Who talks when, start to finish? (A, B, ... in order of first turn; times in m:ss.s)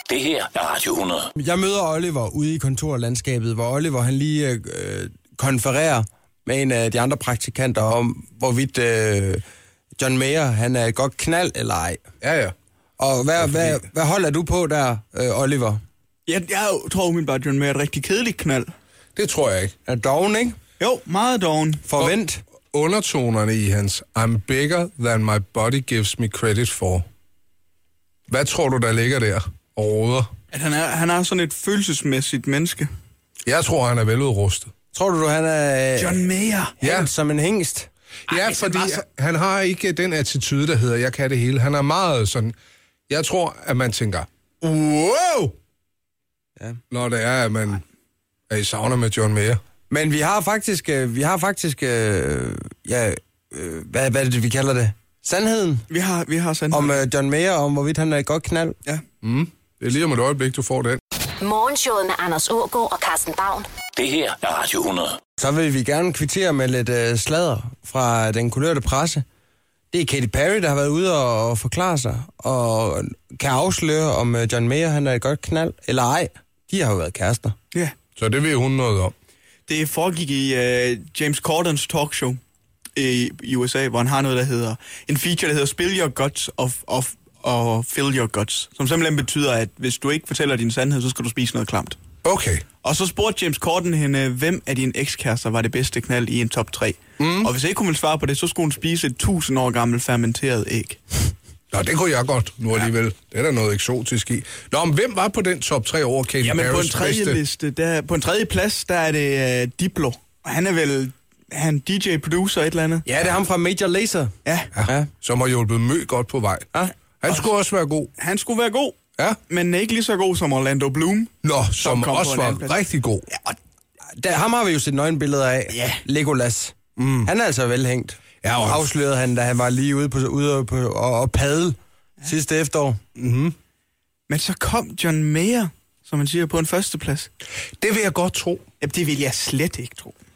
0:00.1-0:01.2 A
0:01.4-0:09.4 B
0:10.0-0:12.0 B
0:12.2-0:12.5 C
0:13.0-0:15.8 B
0:13.4-0:13.8 C
0:16.3-0:18.7 D
0:19.2-0:19.8 C
0:19.9-0:20.6 B
0:20.8-0:21.9 D
0:21.9-0:22.4 B
0:22.7-0:27.0 C
0:28.3-0:30.3 C
0:30.5-0:32.9 D
0:33.5-0:34.7 C
0:34.9-0:36.2 B
0:36.0-0:36.8 D
0:36.8-0:37.1 C
0:36.8-0:37.9 B
0:38.3-0:42.5 C
0:43.1-0:44.3 C
0:46.9-0:47.8 C
0:48.5-0:49.6 C
0:49.9-0:55.8 B
0:55.9-0:57.0 D
0:56.8-0:58.8 B
0:59.2-1:01.0 C
1:01.4-1:03.6 E
1:04.0-1:05.2 A
1:05.4-1:09.2 B
1:09.9-1:17.6 B
1:18.2-1:19.1 C
1:19.7-1:22.4 D
1:23.0-1:32.0 D
1:32.2-1:32.7 C
1:32.8-1:41.2 D
1:37.2-1:37.5 C
1:41.7-1:47.4 C
1:46.4-1:53.1 D
1:53.1-1:54.3 B
1:54.4-1:54.7 D
1:54.8-1:58.1 C
1:54.8-1:55.1 B
1:58.2-1:59.0 D
1:59.5-2:02.8 D
2:01.4-2:03.3 C
2:03.3-2:03.6 D
2:04.1-2:11.8 B
2:05.7-2:06.0 D
2:07.0-2:07.3 C
2:08.4-2:08.9 C
2:12.3-2:13.0 B
2:13.2-2:13.6 C
2:14.3-2:17.3 D
2:17.8-2:18.6 C
2:18.8-2:20.2 D